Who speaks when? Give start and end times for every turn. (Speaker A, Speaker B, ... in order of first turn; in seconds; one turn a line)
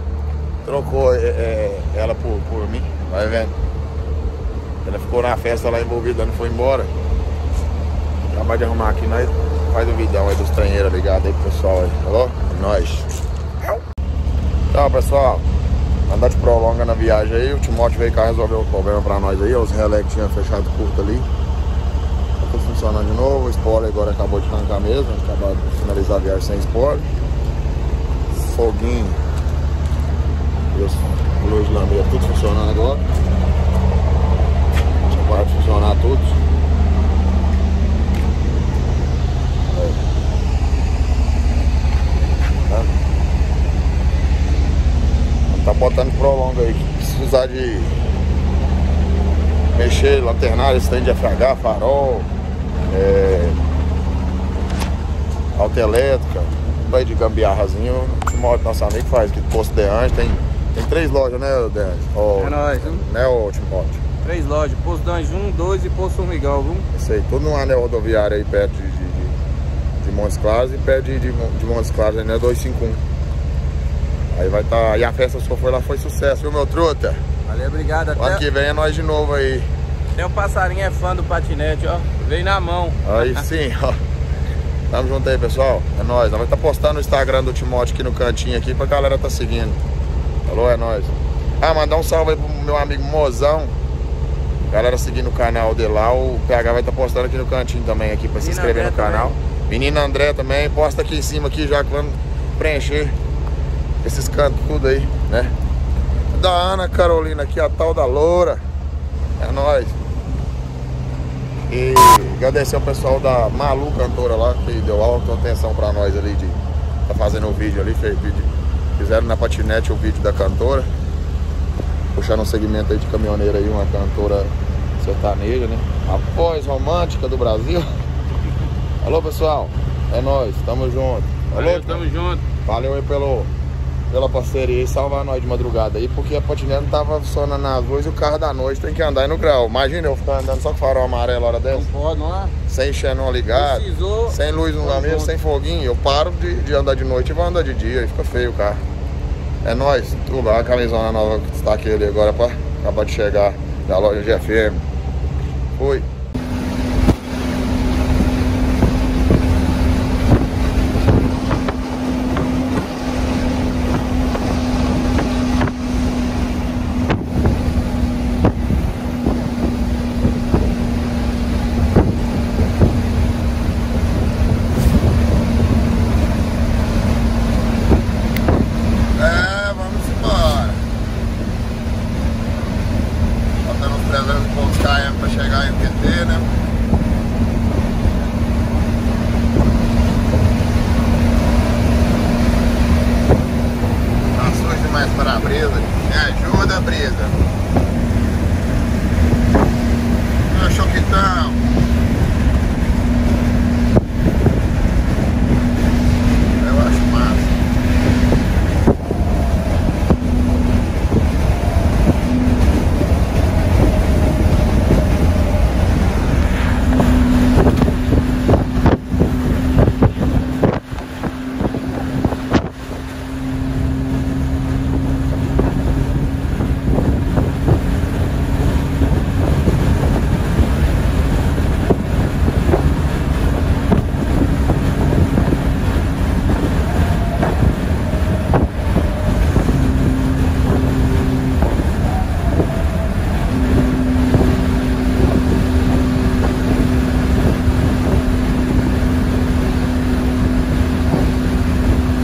Speaker A: 0.6-3.5
Speaker A: 4.8-6.9
Speaker A: 8.3-13.1
Speaker A: 14.7-15.4
Speaker A: 16.1-21.3
Speaker A: 22.4-27.1
Speaker A: 28.3-29.2
Speaker A: 30.7-33.0
Speaker A: 35.1-36.4
Speaker A: 39.7-40.0
Speaker A: 42.6-42.9
Speaker A: 45.5-48.0
Speaker A: 49.7-52.3
Speaker A: 52.9-53.6
Speaker A: 55.5-64.0
Speaker B: 62.4-63.0
Speaker B: 64.2-66.8
Speaker A: 66.9-69.3
Speaker A: 70.0-73.0
Speaker A: 74.3-77.2
Speaker B: 77.5-78.4
Speaker A: 78.2-79.7
Speaker B: 80.1-83.4
Speaker A: 83.0-84.0
Speaker A: 84.9-89.8
Speaker A: 90.5-93.7
Speaker A: 94.7-103.2
Speaker B: 98.4-99.3
Speaker A: 104.0-105.5
Speaker A: 106.3-108.6
Speaker A: 109.4-110.0
Speaker A: 111.7-120.9
Speaker A: 122.1-127.9
Speaker A: 129.0-132.0
Speaker B: 131.5-132.4
Speaker A: 132.6-133.5
Speaker A: 134.1-141.9
Speaker B: 141.7-142.5
Speaker A: 142.7-148.8
Speaker B: 143.5-145.3
Speaker A: 149.6-154.8
Speaker A: 155.8-156.1
Speaker A: 179.2-180.8
Speaker A: 183.6-186.5
Speaker A: 194.3-197.3
Speaker A: 200.5-201.6
Speaker A: 206.6-207.6